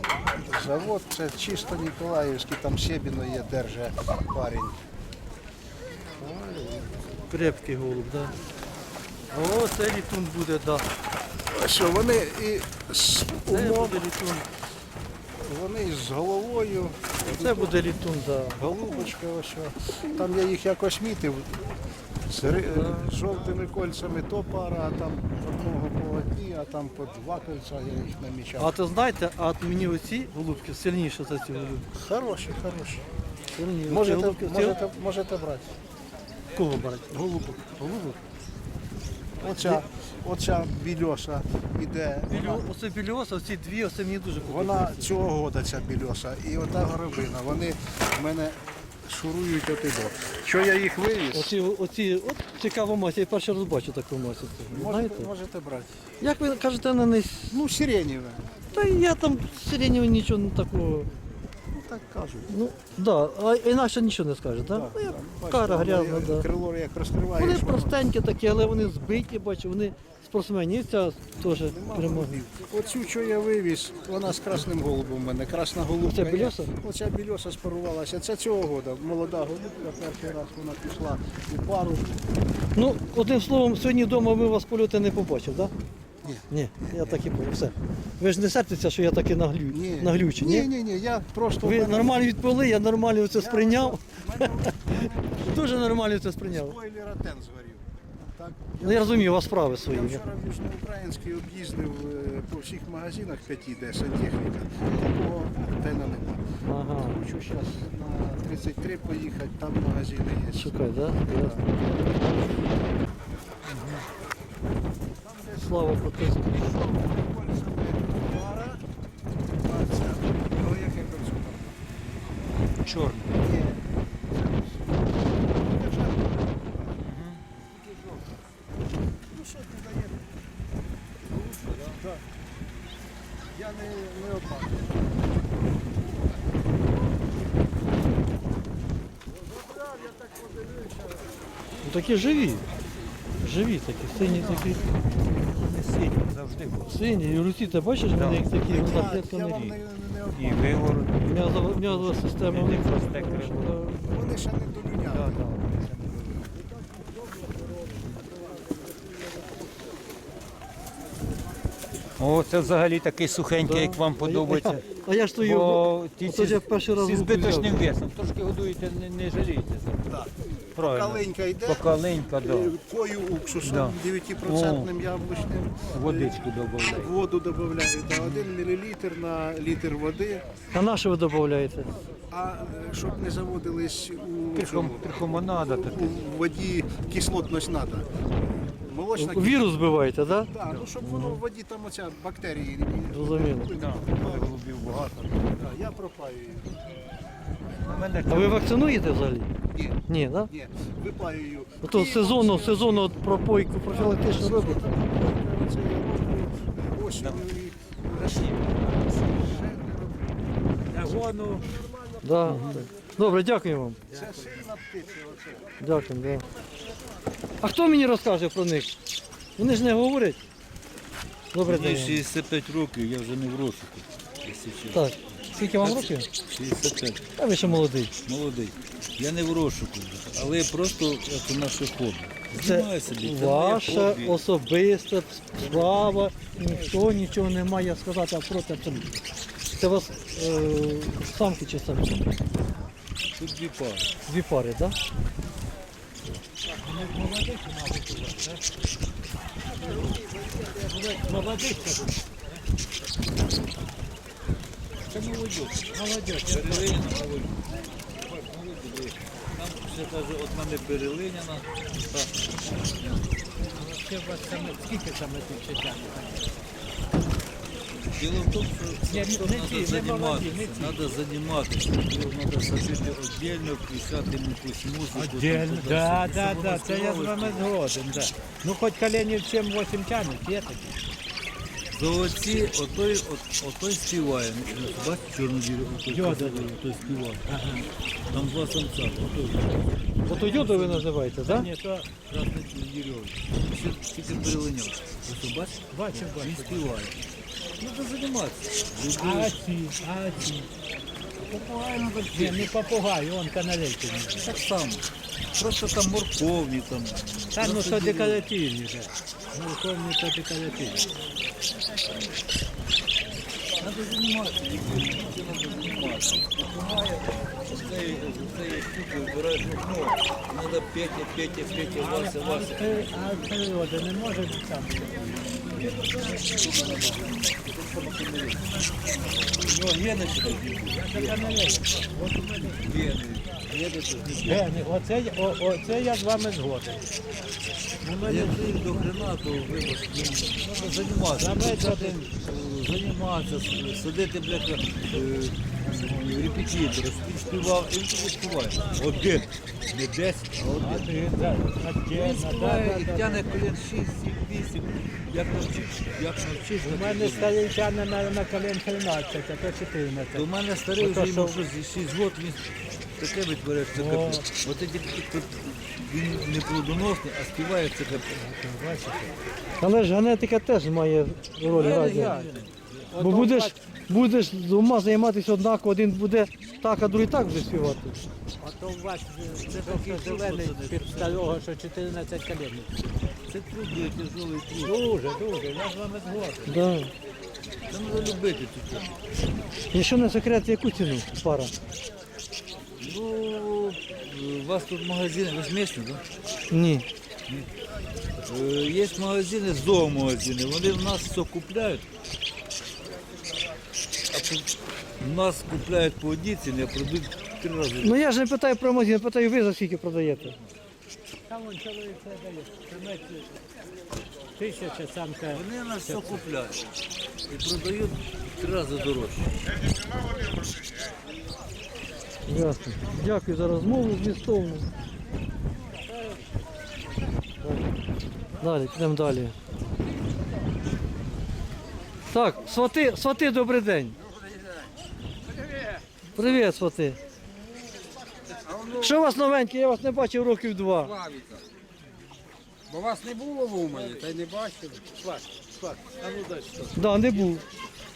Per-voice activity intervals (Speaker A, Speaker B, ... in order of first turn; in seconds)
Speaker A: 0.4-4.8, 11.5-14.1, 15.4-17.8, 18.6-21.6, 22.3-28.8, 31.9-33.0, 33.9-35.8, 37.1-38.2, 39.4-42.6, 44.4-51.5, 54.7-56.0, 57.5-58.5, 61.7-62.5, 64.6-68.0, 71.4-82.2, 86.2-87.2, 89.7-92.2, 93.3-113.2, 115.2-118.8, 119.6-121.8, 123.4-127.0, 127.7-128.4, 129.3-130.4, 132.0-132.2, 133.5-135.0, 139.3-141.4, 148.6-150.9, 154.1-155.4, 170.8-180.5, 182.3-188.1, 188.8-189.8, 190.4-194.5, 195.6-196.8, 199.7-212.8, 214.1-215.8
Speaker B: 6.2-8.3, 9.3-10.9, 13.4-14.5, 17.3-18.6, 22.7-23.2, 28.6-31.9, 33.5-34.8, 36.5-37.1, 42.3-45.2, 51.3-55.3, 56.2-57.6, 58.7-61.1, 62.5-66.5, 67.4-72.4, 76.0-76.7, 82.8-85.7, 86.5-90.7, 91.6-96.8, 98.8-100.2, 106.7-107.2, 110.6-111.6, 115.6-116.8, 141.8-142.7, 143.4-144.8, 146.9-149.7, 151.3-154.3, 163.6-167.9, 180.7-181.9, 189.2-191.4, 193.1-193.7, 198.3-199.5, 200.1-200.5, 201.8-205.0, 212.2-214.0, 215.8-216.4, 217.6-218.9, 219.6-220.4, 221.5-222.2, 224.9-226.3, 227.4-228.1, 232.6-239.1, 239.8-242.4, 244.3-244.9, 290.3-291.7, 369.8-372.4, 373.2-378.2, 386.7-387.1, 389.9-391.7, 396.7-397.1, 408.0-410.6, 422.5-424.9, 428.6-429.6, 432.3-434.2, 436.3-437.2, 439.0-441.1, 446.9-447.6
Speaker C: 113.7-114.0, 122.8-123.4, 127.0-127.4, 131.3-132.0, 144.1-146.9, 148.1-148.5, 149.5-149.8, 150.3-153.8, 155.1-156.5, 162.2-164.8, 165.4-172.8, 173.6-174.9, 175.9-177.1, 178.1-178.5, 184.6-186.2, 193.8-195.7, 197.8-198.7, 207.2-207.4, 208.1-209.7, 212.4-212.9, 221.7-234.4, 235.6-237.1, 243.4-244.1, 250.8-251.4, 255.1-257.6, 258.2-262.4, 263.0-263.2, 268.1-277.6, 281.9-287.5, 288.3-289.8, 292.2-297.2, 297.8-299.6, 301.4-302.7, 304.4-305.0, 305.6-308.4, 313.8-323.1, 325.6-328.9, 329.5-331.4, 332.8-334.7, 338.0-351.2, 352.1-357.6, 360.3-368.3, 371.7-373.1, 379.6-381.4, 383.5-385.0, 387.9-389.2, 393.0-396.2, 398.5-402.1, 404.3-404.7, 405.2-408.2, 415.5-416.9, 417.5-419.6, 445.2-447.3
Speaker D: 210.9-211.7, 246.8-248.6, 251.1-252.2, 255.9-256.9, 263.6-266.5, 269.1-271.1, 275.1-281.0, 286.1-286.7, 287.5-287.8, 290.3-292.1, 295.9-296.9, 299.2-300.7, 302.3-304.5, 307.6-311.1, 321.9-325.4, 330.9-332.8, 334.4-337.1, 338.1-338.7, 341.4-342.3, 350.8-353.6, 356.8-360.5, 361.0-361.6, 363.9-364.5, 368.2-369.4, 371.7-372.6, 373.1-373.8, 378.6-382.9, 384.8-386.7, 411.5-413.6, 414.6-416.4
Speaker E: 434.2-434.9, 438.6-439.2, 441.0-441.6, 442.9-445.1